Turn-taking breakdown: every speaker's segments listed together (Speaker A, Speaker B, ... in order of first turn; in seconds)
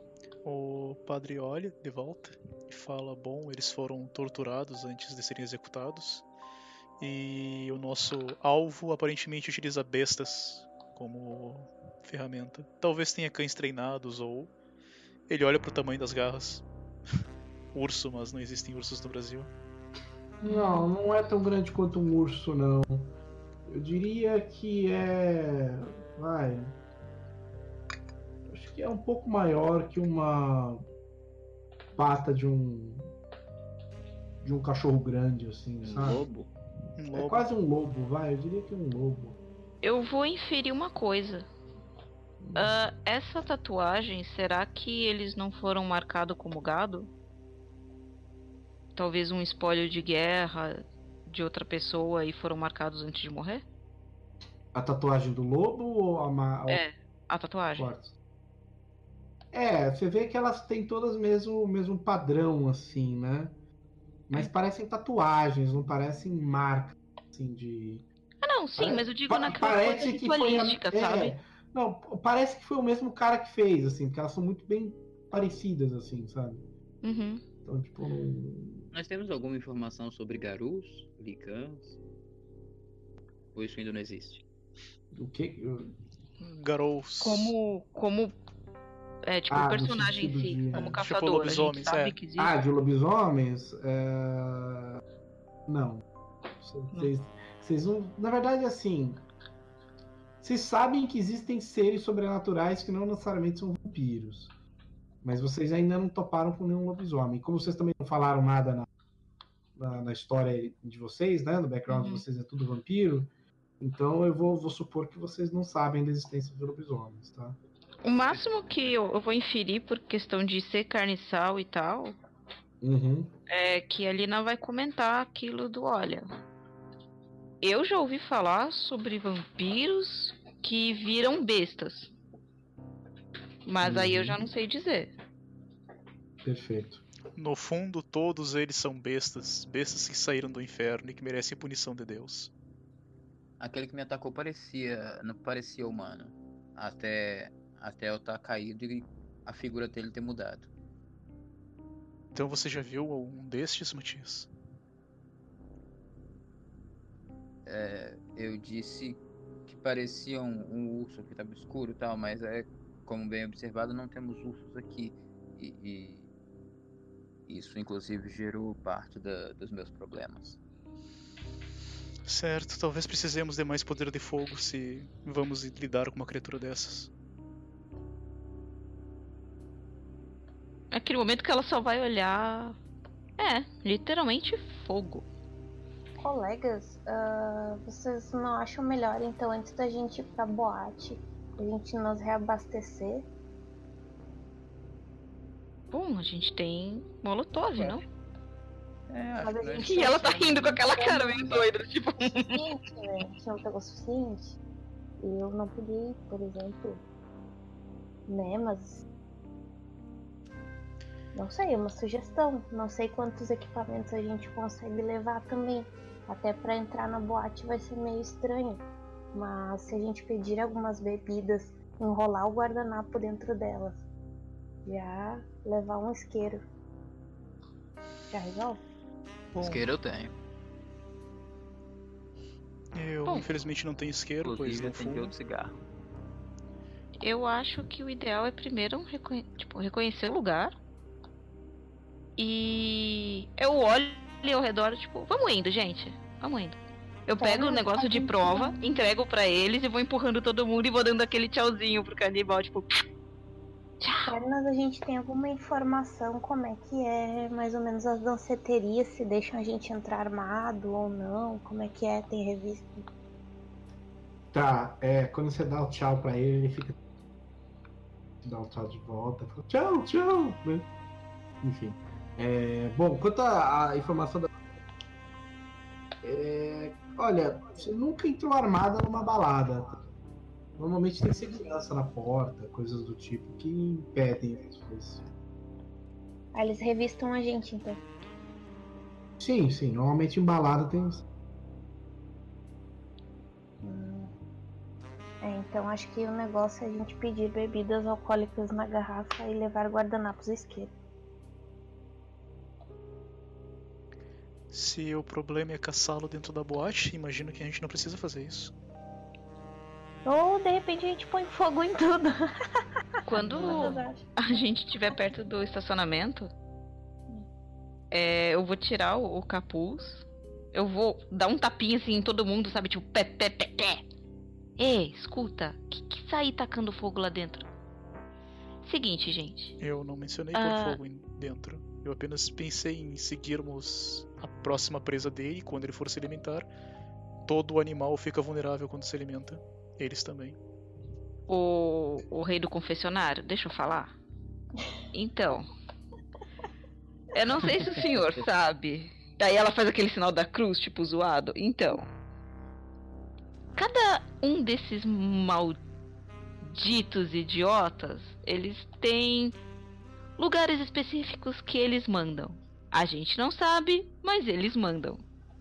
Speaker A: 0.4-6.2, 7.0-14.5, 15.3-16.6, 17.7-19.5, 37.0-37.5, 86.4-87.5, 90.7-92.2, 137.3-142.5, 152.3-154.5, 172.2-177.1, 229.5-229.9, 232.9-235.3, 304.7-308.7, 329.8-336.7, 337.4-340.6
Speaker B: 20.4-23.1, 23.6-26.8, 28.5-30.8, 31.9-33.1, 34.4-36.2, 37.1-39.4, 42.4-42.8, 54.7-56.8, 57.8-58.1, 59.5-63.5, 64.3-68.0, 68.8-76.6, 77.6-78.9, 85.1-85.9, 89.5-91.0, 92.4-95.0, 95.7-96.0, 96.6-99.2, 100.4-104.5, 105.2-108.9, 109.8-117.6, 122.8-123.3, 133.8-134.4, 136.4-137.0, 264.5-266.9, 268.4-270.9, 271.6-274.5, 276.2-280.0, 280.8-285.2, 289.4-291.2
Speaker C: 20.4-20.9, 39.8-41.5, 42.5-47.1, 48.9-53.6, 56.7-57.9, 68.4-71.3, 77.0-77.4, 87.2-88.3, 89.2-92.5, 111.9-112.2, 118.0-122.2, 123.5-126.2, 127.6-132.1, 133.6-135.1, 180.9-182.8, 183.4-185.3, 195.9-198.0, 199.8-202.6, 237.2-240.7, 242.4-253.0, 254.0-254.3, 313.2-316.5, 318.1-324.1, 324.8-327.7, 328.8-329.8, 330.5-331.0, 341.5-344.1, 345.1-345.7, 347.3-352.1, 353.8-355.8, 356.6-359.6, 360.4-365.2
Speaker D: 35.8-36.5, 78.9-82.0, 83.5-84.4, 143.6-150.7, 157.6-166.3, 167.5-170.6, 199.1-200.5, 229.6-230.3, 234.4-235.8
Speaker E: 186.2-193.2, 199.4-201.6, 202.2-204.6, 205.2-207.0, 208.3-209.0, 211.3-224.0, 224.8-226.6, 228.3-228.8, 247.4-248.8, 254.2-263.1, 286.5-288.0, 293.8-294.3, 295.4-300.9, 310.2-312.5, 313.3-314.3